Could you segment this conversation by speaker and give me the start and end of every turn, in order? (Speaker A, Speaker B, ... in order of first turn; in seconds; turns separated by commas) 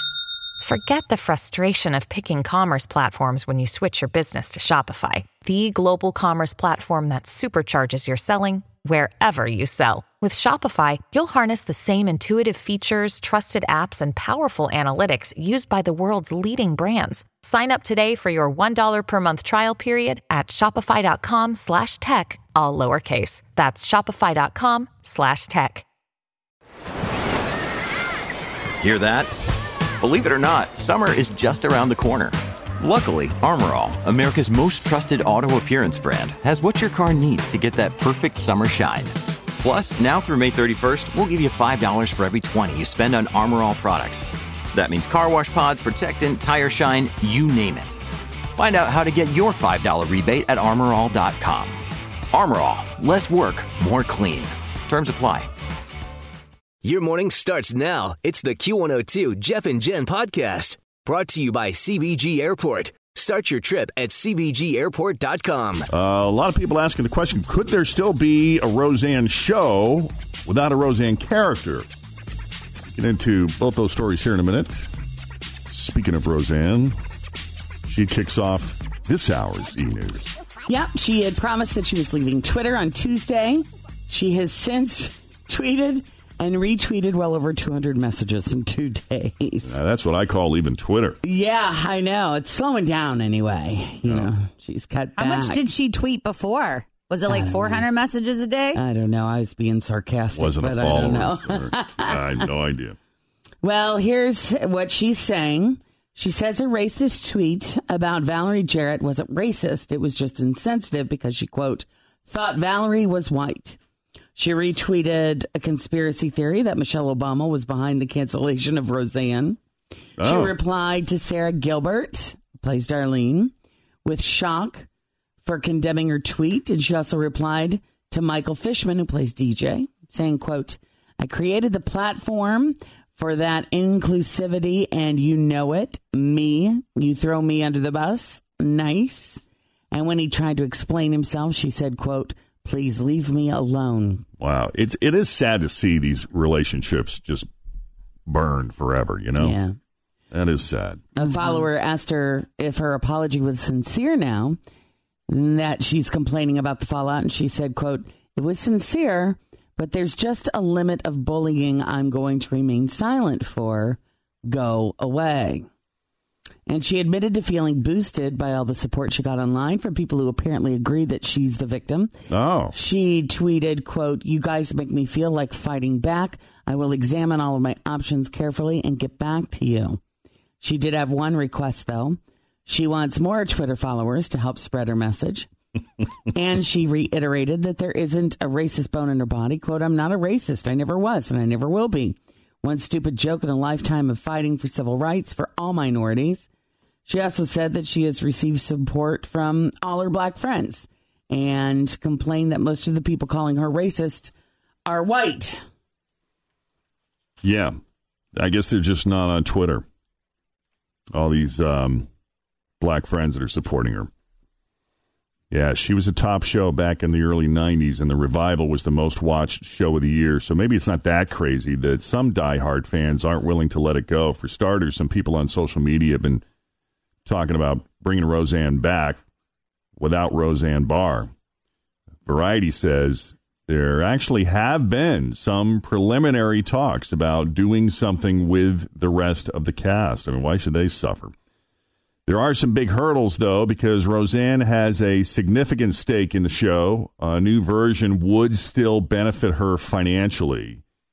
Speaker A: 0.6-25.9, Speaker B: 28.8-29.3, Speaker B: 30.0-48.0, Speaker B: 48.5-51.8, Speaker B: 52.3-55.5, Speaker C: 56.8-65.9, Speaker D: 65.9-71.8, Speaker D: 72.9-74.9, Speaker D: 75.7-76.9, Speaker D: 77.8-80.3, Speaker E: 80.7-89.7, Speaker D: 89.6-91.2, Speaker E: 91.2-95.6, Speaker D: 94.0-94.3, Speaker F: 95.2-98.8, Speaker E: 97.2-97.9, Speaker E: 98.7-102.4, Speaker D: 100.3-103.0, Speaker E: 103.6-113.8, Speaker E: 114.3-119.6, Speaker D: 120.2-120.5, Speaker E: 120.2-123.5, Speaker E: 124.0-124.9, Speaker E: 125.4-144.2, Speaker D: 144.4-147.5, Speaker D: 148.3-149.6, Speaker E: 149.4-149.7, Speaker D: 150.3-151.0, Speaker E: 151.2-154.6, Speaker E: 155.3-165.6, Speaker E: 166.7-172.1, Speaker D: 172.3-172.8, Speaker E: 172.7-180.0, Speaker E: 180.6-185.5, Speaker E: 186.3-196.5, Speaker E: 197.1-204.3, Speaker E: 204.8-205.6, Speaker D: 207.4-207.7, Speaker D: 208.3-209.8, Speaker D: 211.1-212.1, Speaker D: 212.8-214.1, Speaker D: 215.5-226.4, Speaker D: 227.2-229.2, Speaker D: 230.0-231.3, Speaker D: 232.2-241.3, Speaker D: 242.2-250.8